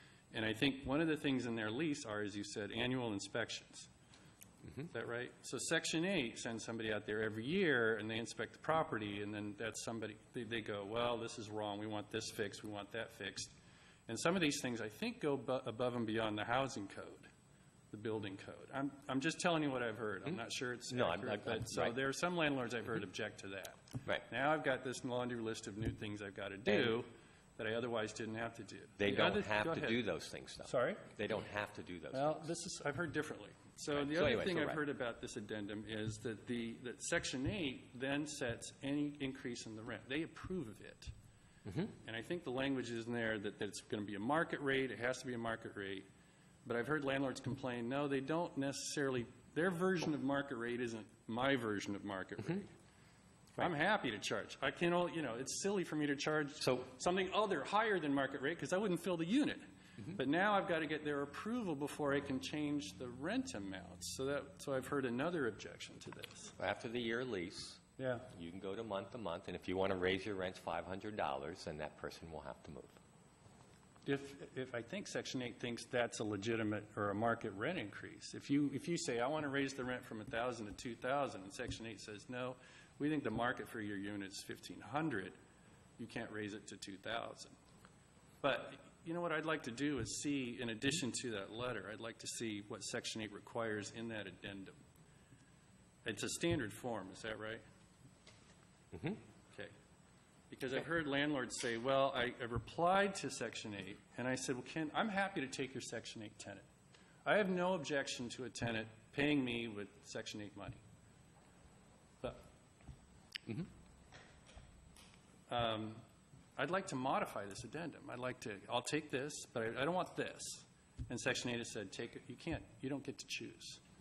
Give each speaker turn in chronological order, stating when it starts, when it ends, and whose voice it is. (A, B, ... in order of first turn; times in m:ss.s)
0:00.3-0:03.9 A
0:04.8-0:13.5 A
0:14.1-0:17.3 A
0:17.9-0:30.0 A
0:20.9-0:22.0 B
0:26.7-0:26.9 B
0:29.0-0:32.4 B
0:30.6-0:31.1 A
0:32.1-0:41.1 A
0:33.9-0:34.8 B
0:41.7-0:41.9 B
0:42.0-0:46.0 A
0:46.6-0:52.7 A
0:53.6-1:06.5 A
1:06.6-1:12.9 B
1:08.0-1:08.3 A
1:14.0-1:25.4 A
1:26.0-1:27.5 A
1:28.4-1:34.7 A
1:36.0-1:37.6 A
1:38.9-1:39.2 B
1:40.5-1:46.6 A
1:47.2-1:50.8 A
1:55.5-1:56.0 A
1:56.6-2:03.8 A